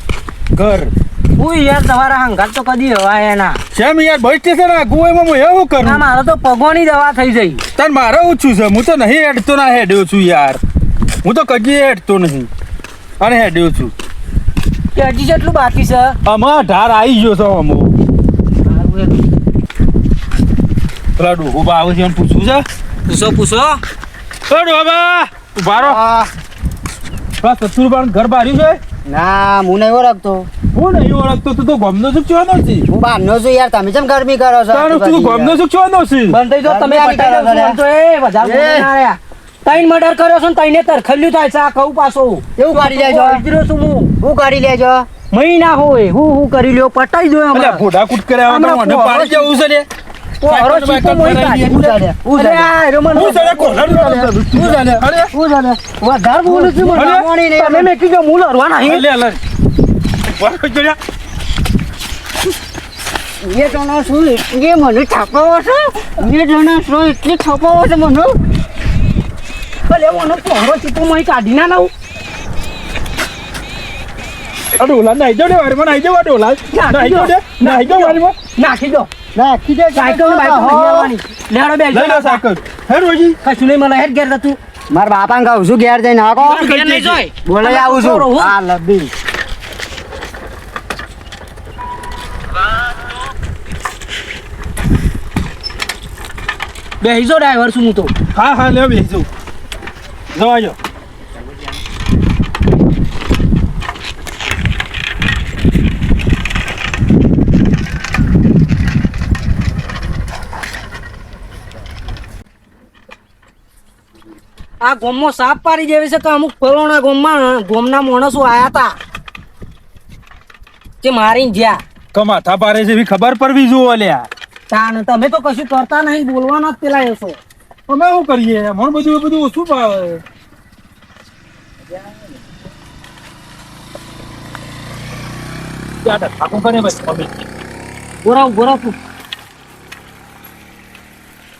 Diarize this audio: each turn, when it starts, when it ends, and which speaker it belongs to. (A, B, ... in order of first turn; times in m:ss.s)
0:00.5-0:00.9 A
0:01.4-0:03.6 B
0:03.7-0:06.0 A
0:05.8-0:07.6 B
0:07.8-0:10.6 A
0:11.2-0:12.5 A
0:13.2-0:13.9 A
0:15.0-0:16.2 B
0:16.2-0:18.0 A
0:18.7-0:19.2 B
0:21.2-0:22.7 A
0:23.1-0:23.8 B
0:24.5-0:26.0 A
0:25.8-0:26.3 C
0:27.4-0:28.8 A
0:29.1-0:30.5 C
0:30.7-0:32.8 A
0:32.9-0:35.6 C
0:34.7-0:36.4 A
0:36.3-0:44.1 B
0:36.6-0:37.8 C
0:38.4-0:38.9 C
0:42.6-0:43.4 C
0:44.2-0:45.1 C
0:45.3-0:47.8 B
0:47.5-0:49.9 A
0:48.5-0:49.6 B
0:50.4-0:55.0 B
0:50.4-0:51.8 A
0:51.6-0:52.7 C
0:53.1-0:55.3 A
0:55.3-0:57.9 C
0:56.0-0:59.0 B
0:56.9-0:57.3 A
0:58.8-0:59.4 A
1:00.2-1:01.0 A
1:03.4-1:08.4 C
1:09.9-1:11.9 B
1:14.8-1:18.4 A
1:16.7-1:19.1 B
1:19.4-1:21.1 C
1:20.0-1:22.4 B
1:21.9-1:23.4 A
1:23.4-1:24.6 B
1:24.9-1:26.8 C
1:26.4-1:28.5 B
1:27.4-1:29.1 C
1:37.0-1:38.1 B
1:38.3-1:39.3 A
1:40.3-1:40.8 A
1:54.8-1:59.0 B
2:01.0-2:01.8 B
2:02.1-2:04.3 A
2:04.7-2:07.4 B
2:07.9-2:10.2 A
2:16.0-2:17.3 A
2:18.2-2:19.0 B